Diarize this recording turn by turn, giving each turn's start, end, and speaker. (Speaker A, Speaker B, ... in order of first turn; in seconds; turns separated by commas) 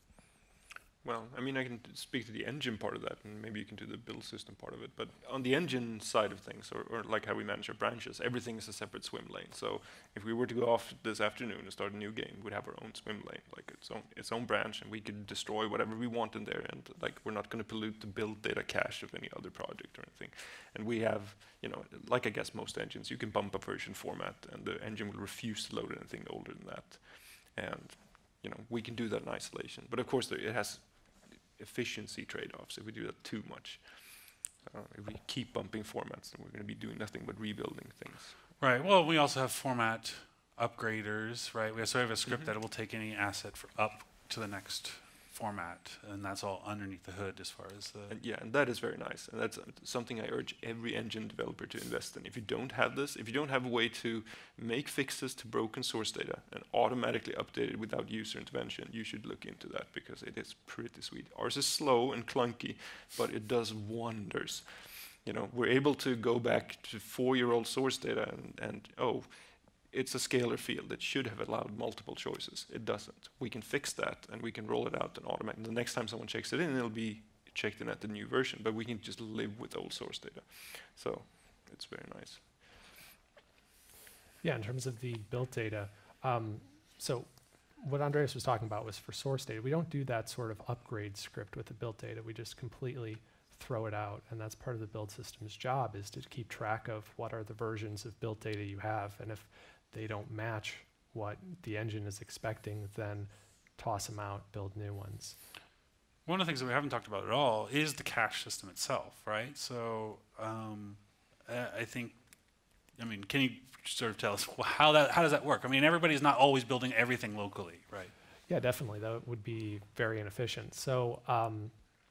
Speaker A: 1.0-38.4, Speaker B: 38.6-48.2, Speaker A: 48.1-82.5, Speaker C: 84.4-105.4, Speaker B: 106.2-112.4, Speaker B: 112.9-118.1, Speaker C: 118.5-121.7